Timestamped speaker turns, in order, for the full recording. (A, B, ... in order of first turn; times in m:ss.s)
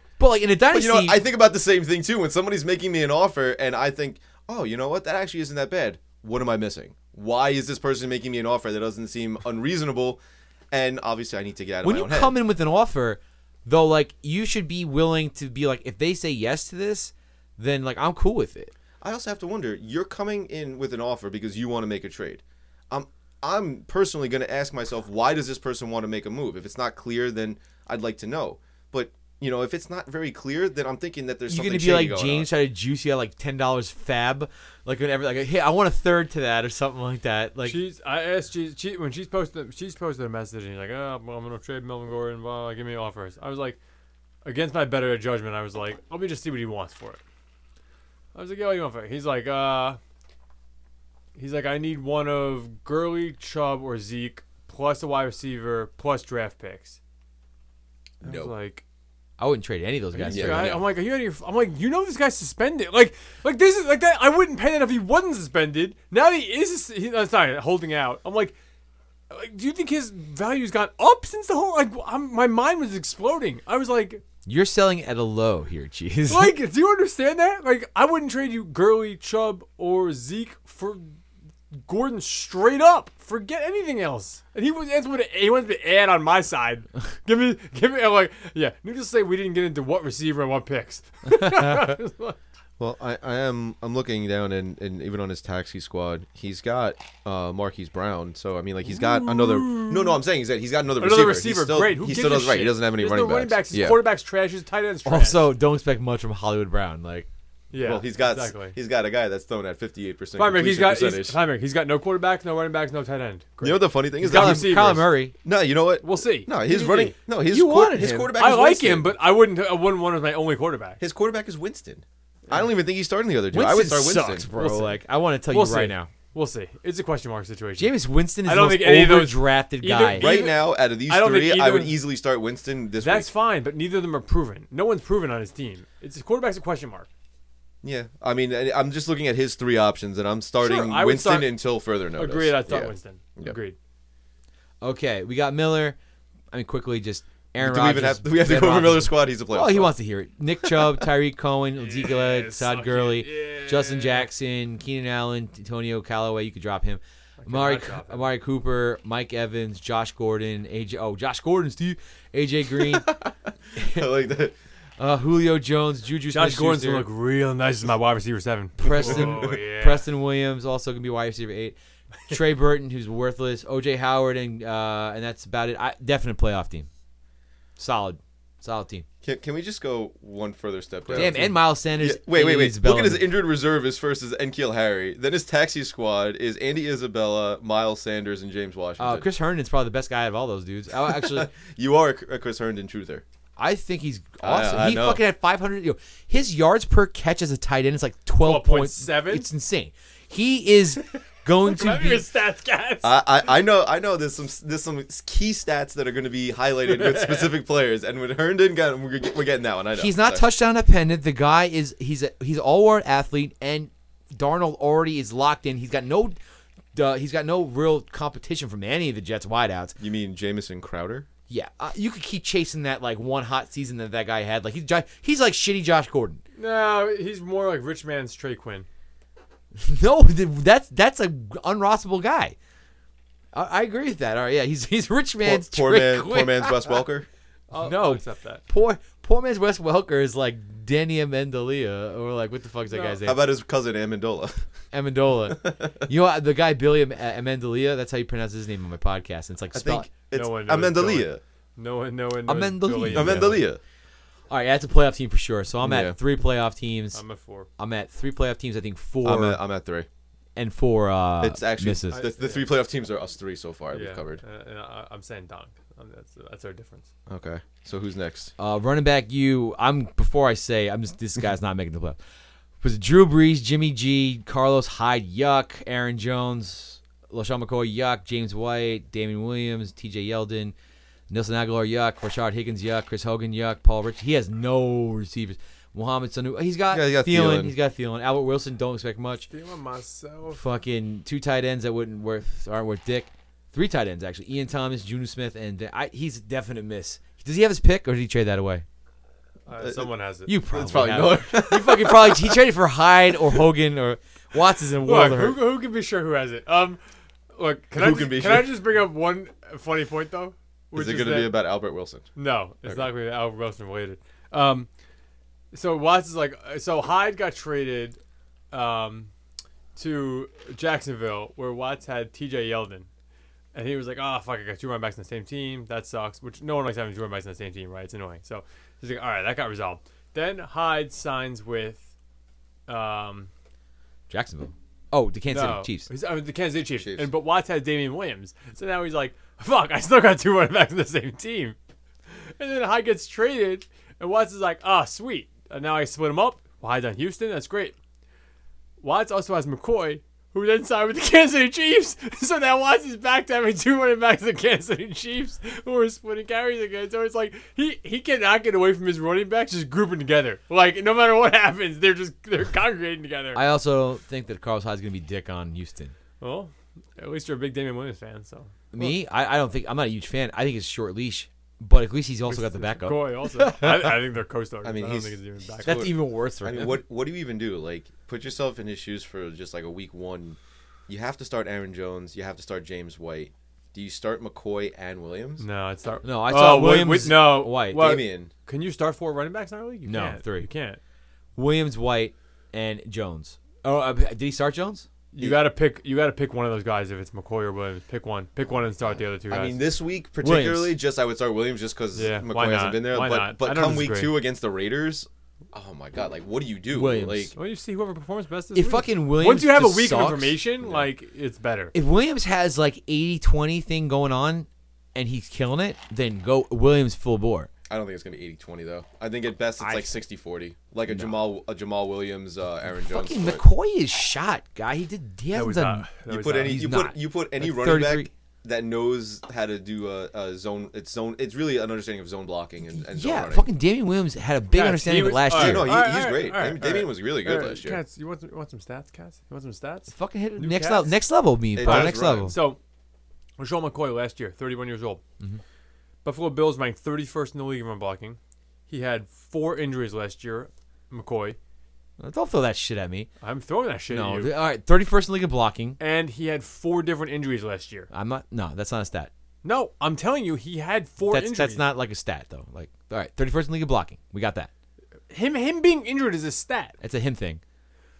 0:00.2-0:01.2 A
0:00.7-0:10.2 B
0:10.7-0:12.3 B
0:11.8-0:18.7 A
0:19.0-0:32.5 B
0:31.5-0:37.8 A
0:37.6-0:43.8 C
0:44.4-0:47.2 C
0:48.3-0:50.0 C
0:51.4-0:57.0 C
0:58.2-0:58.5 B
0:58.2-0:58.8 C
0:59.4-1:00.8 A
1:00.1-1:08.6 C
1:00.3-1:00.8 B
1:09.3-1:14.2 C
1:14.5-1:16.5 A
1:16.3-1:21.2 C
1:21.8-1:32.4 C
1:32.8-1:44.0 B
1:38.9-1:40.2 C
1:41.0-1:45.5 C
1:45.0-1:47.3 A
1:47.7-1:48.8 C
1:47.8-1:51.4 B
1:50.4-1:55.1 C
1:53.6-1:59.1 B
1:54.2-1:55.3 A
1:56.0-1:57.2 C
1:57.4-1:58.3 A
1:58.4-2:01.0 C
2:01.0-2:04.5 B
2:03.5-2:06.1 A
2:04.5-2:12.0 C
2:07.8-2:10.3 A
2:10.2-2:13.3 B
2:13.0-2:17.1 C
2:17.8-2:23.6 B
2:20.6-2:21.6 C
2:22.2-2:23.8 C
2:24.8-2:26.0 A
2:26.5-2:43.1 A
2:27.6-2:29.9 B
2:31.8-2:34.3 C
2:37.4-2:38.3 C
2:43.0-2:44.5 B
2:43.8-2:44.0 A
2:45.0-2:47.1 A
2:46.3-2:50.0 C
2:48.8-2:51.8 A
2:48.8-2:49.6 B
2:52.3-2:56.9 A
2:57.8-2:59.1 A
2:59.2-3:09.3 B
3:01.1-3:01.5 C
3:01.1-3:03.3 A
3:09.0-3:11.5 A
3:11.0-3:13.2 B
3:13.6-3:22.3 A
3:14.4-3:15.2 B
3:18.4-3:19.5 C
3:21.6-3:23.2 C
3:23.0-3:30.5 B
3:27.0-3:27.5 C
3:30.0-3:36.4 A
3:36.9-3:40.0 A
3:40.0-3:41.3 B
3:41.5-3:46.4 A
3:46.6-3:48.9 C
3:49.8-3:52.6 A
3:53.5-3:57.0 A
3:55.4-3:57.3 B
3:57.7-3:58.6 C
3:57.8-4:03.4 A
4:02.9-4:03.2 C
4:03.2-4:04.6 B
4:04.9-4:10.1 A
4:05.5-4:06.0 B
4:09.7-4:11.4 B
4:10.3-4:13.6 C
4:12.5-4:13.6 A
4:13.1-4:13.8 B
4:14.5-4:17.2 A
4:15.8-4:16.2 B
4:17.1-4:17.7 C
4:17.8-4:19.6 A
4:19.2-4:20.1 B
4:20.6-4:22.2 A
4:21.4-4:24.4 B
4:22.1-4:22.8 C
4:23.9-4:27.1 C
4:27.3-4:28.5 B
4:28.6-4:32.2 A
4:32.8-4:40.7 A
4:41.3-4:49.5 A
4:46.9-4:47.7 B
4:49.5-4:50.6 C
4:50.5-4:58.8 A
4:59.7-5:00.6 C
4:59.8-5:00.1 B
5:00.5-5:05.6 A
5:00.6-5:02.6 B
5:05.0-5:07.0 C
5:07.5-5:11.5 C
5:07.9-5:08.8 B
5:10.9-5:12.3 B
5:12.4-5:14.9 C
5:15.7-5:18.2 C
5:18.7-5:19.3 C
5:20.0-5:23.1 C
5:23.7-5:32.0 C
5:32.9-5:33.5 C
5:34.3-5:36.1 A
5:35.5-5:41.8 C
5:37.0-5:37.3 B
5:42.3-5:48.0 C
5:49.0-6:03.6 C
6:03.5-6:06.1 A
6:06.4-6:08.7 C
6:08.9-6:14.2 A
6:12.5-6:16.1 C
6:14.8-6:25.6 B
6:15.8-6:17.0 A
6:25.6-6:31.0 C
6:26.2-6:28.2 A
6:27.9-6:28.5 B
6:30.1-6:30.7 A
6:31.6-6:35.1 A
6:35.3-6:39.8 C
6:39.0-6:47.5 B
6:40.4-6:41.0 A
6:42.2-6:44.4 C
6:46.9-6:47.5 A
6:47.6-6:51.9 C
6:48.8-6:50.6 A
6:51.9-6:57.7 A
6:57.9-7:03.6 B
6:59.8-7:00.1 A
7:01.1-7:01.3 A
7:03.0-7:06.1 A
7:05.5-7:06.9 C
7:06.3-7:13.7 B
7:06.6-7:08.3 A
7:13.0-7:15.9 A
7:14.7-7:21.1 C
7:15.5-7:18.0 B
7:20.1-7:22.6 A
7:21.8-7:22.6 B
7:21.8-7:22.8 C
7:23.6-7:25.2 C
7:26.2-7:28.4 C
7:28.9-7:31.6 C
7:32.2-7:33.3 A
7:33.4-7:34.5 C
7:34.1-7:36.0 A
7:36.0-7:38.1 C
7:38.1-7:39.3 A
7:39.6-7:41.9 C
7:41.3-7:44.7 A
7:45.3-7:46.9 C
7:47.0-7:47.6 A